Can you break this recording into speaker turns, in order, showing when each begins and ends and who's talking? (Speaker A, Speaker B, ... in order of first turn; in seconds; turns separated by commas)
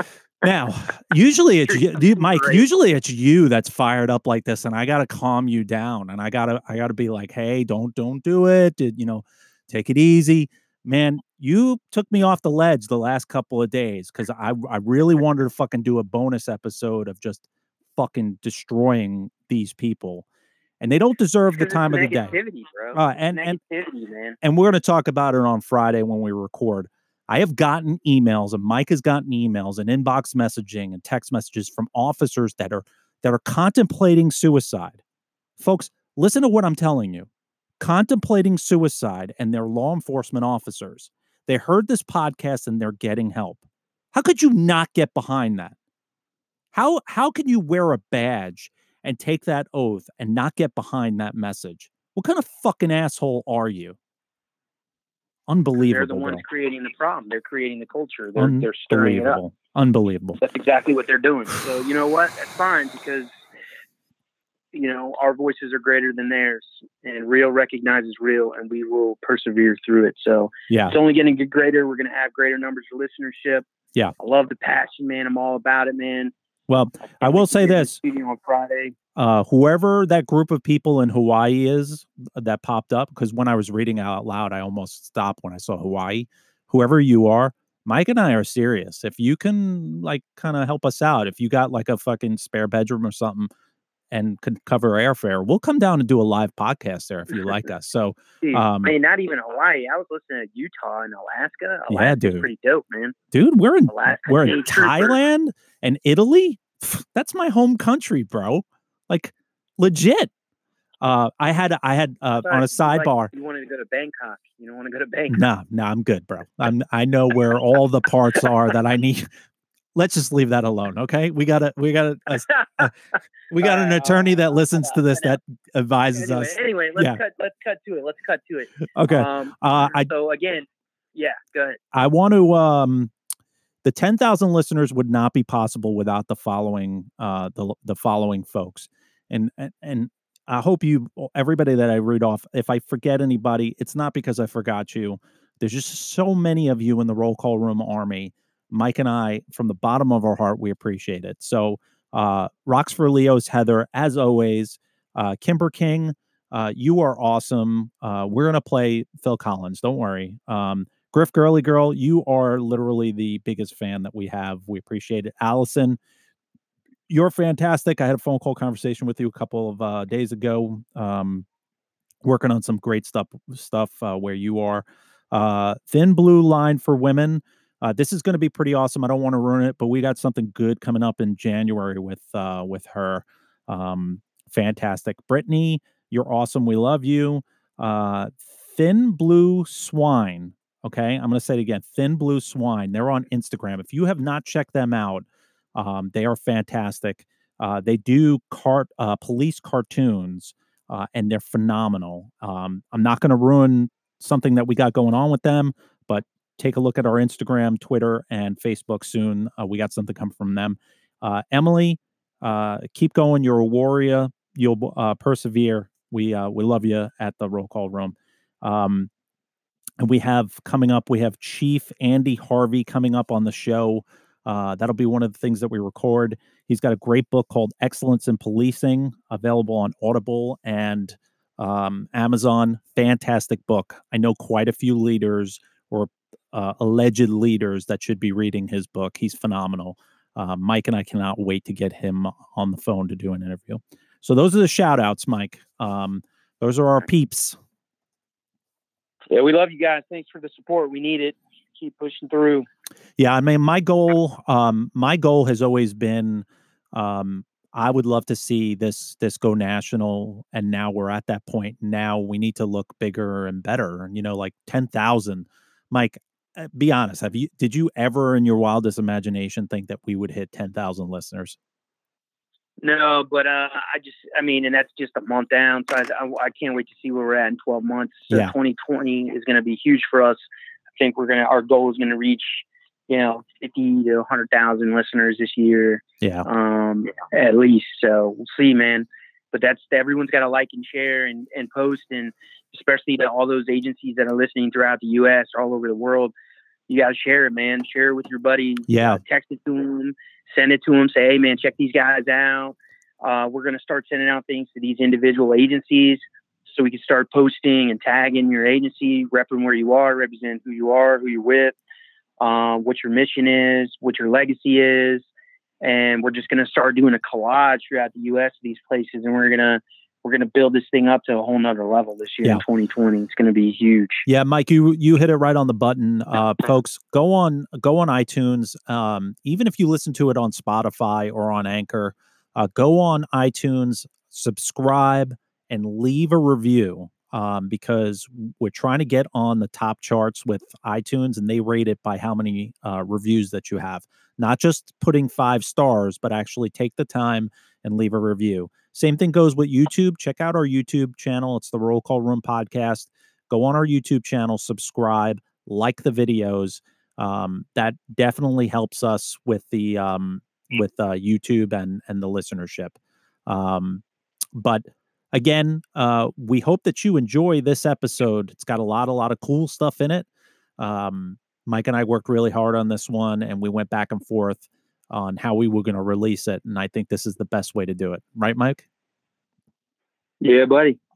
Speaker A: 0.4-17.4, Speaker B: 1.7-2.6, Speaker A: 17.9-20.2, Speaker A: 20.8-22.4, Speaker B: 21.5-24.4, Speaker A: 22.9-23.6, Speaker A: 24.4-35.0, Speaker A: 35.6-37.3, Speaker A: 37.8-43.6, Speaker A: 44.1-45.7, Speaker A: 46.7-54.0, Speaker A: 55.5-56.4, Speaker B: 55.8-59.4, Speaker A: 58.4-60.4, Speaker B: 60.4-63.3, Speaker B: 64.7-73.7, Speaker A: 70.7-71.0, Speaker B: 74.2-76.3, Speaker A: 76.7-78.0, Speaker B: 77.0-78.9, Speaker A: 79.2-93.5, Speaker A: 94.1-98.9, Speaker B: 98.4-103.1, Speaker A: 101.9-102.5, Speaker A: 103.3-110.3, Speaker B: 103.9-105.2, Speaker A: 111.0-113.3, Speaker B: 112.4-115.4, Speaker A: 115.3-119.3, Speaker A: 119.9-122.9, Speaker A: 123.5-127.2, Speaker B: 123.6-125.3, Speaker B: 126.1-131.8, Speaker A: 128.9-130.1, Speaker A: 131.9-133.1, Speaker A: 133.8-166.0, Speaker A: 167.1-171.4, Speaker A: 172.2-219.1, Speaker A: 220.0-247.6, Speaker B: 249.3-252.7, Speaker A: 253.2-271.6, Speaker B: 272.8-280.4, Speaker B: 281.0-296.3, Speaker A: 286.2-286.5, Speaker B: 296.9-311.7, Speaker A: 298.9-299.2, Speaker B: 312.4-315.2, Speaker B: 315.8-324.2, Speaker A: 324.2-364.0, Speaker A: 364.5-370.3, Speaker A: 370.8-378.8, Speaker B: 380.4-381.0